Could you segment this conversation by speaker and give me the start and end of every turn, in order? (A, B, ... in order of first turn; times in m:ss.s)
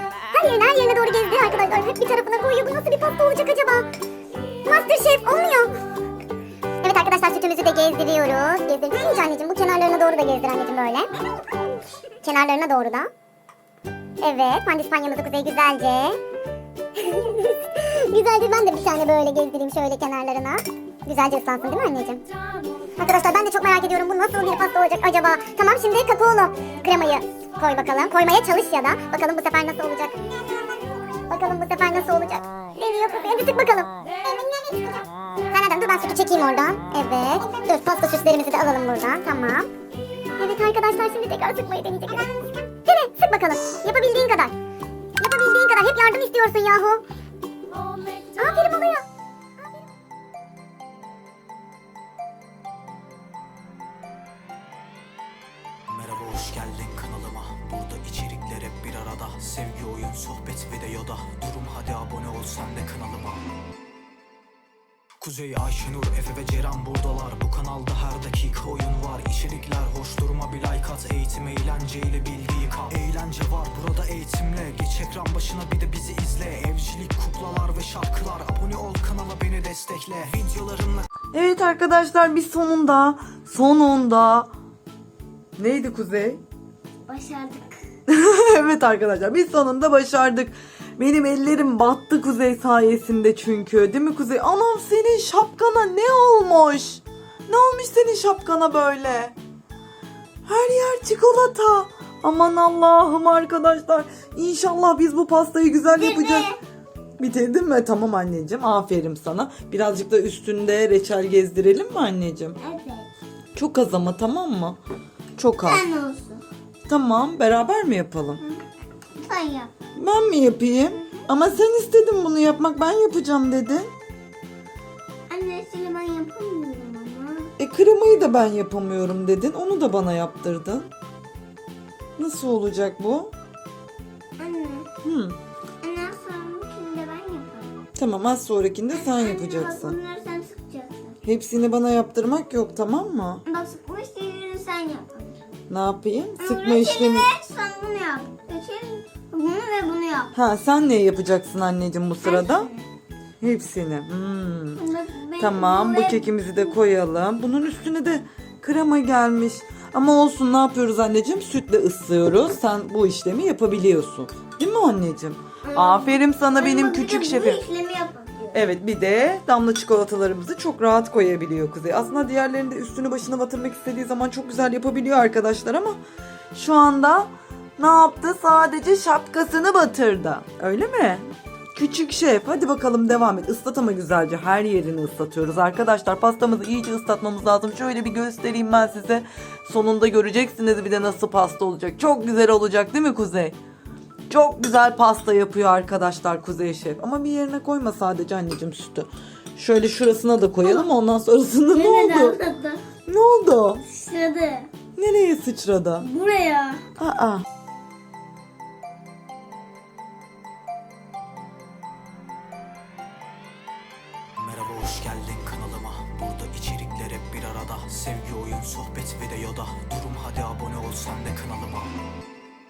0:00.3-0:03.9 A
0:04.6-0:05.7 A
0:06.8-0:11.1 A
0:12.2-0:13.1 A
0:14.2-0:16.2 A
0:17.0-0:22.2 A
0:23.0-0:30.2 A
0:31.3-0:39.7 A
0:40.4-0:44.5 A
0:45.2-0:47.0 A
0:48.4-0:49.0 A
0:55.9-1:03.4 B
1:05.2-1:21.1 B
1:21.3-1:24.5 C
1:25.6-1:26.4 C
1:27.1-1:27.8 D
1:28.1-1:39.3 C
1:40.4-1:46.5 C
1:45.9-1:46.6 D
1:47.2-1:52.6 C
1:52.6-1:53.1 D
1:53.5-1:54.8 C
1:55.4-1:55.8 C
1:55.6-1:56.4 D
1:56.9-1:58.4 C
1:59.2-1:59.7 D
2:00.0-2:03.9 C
2:05.3-2:07.5 D
2:07.6-2:10.9 C
2:12.2-2:13.3 C
2:14.4-2:14.9 D
2:15.0-2:15.4 C
2:15.8-2:17.7 D
2:18.0-2:20.0 C
2:18.9-2:21.2 D
2:21.2-2:23.4 C
2:23.4-2:25.4 D
2:25.7-2:27.3 C
2:26.4-2:30.3 D
2:30.3-2:32.7 C
2:32.2-2:32.8 D
2:33.4-2:34.8 C
2:34.8-2:36.7 D
2:35.4-2:47.6 C
2:45.6-2:48.6 D
2:48.5-2:56.0 C
2:56.5-3:01.2 C
3:01.7-3:13.6 C
3:14.3-3:22.4 C
3:21.7-3:22.8 D
3:23.0-3:23.8 C
3:23.9-3:24.7 D
3:25.0-3:26.1 C
3:26.0-3:26.8 D
3:27.0-3:27.4 C
3:34.4-3:41.9 B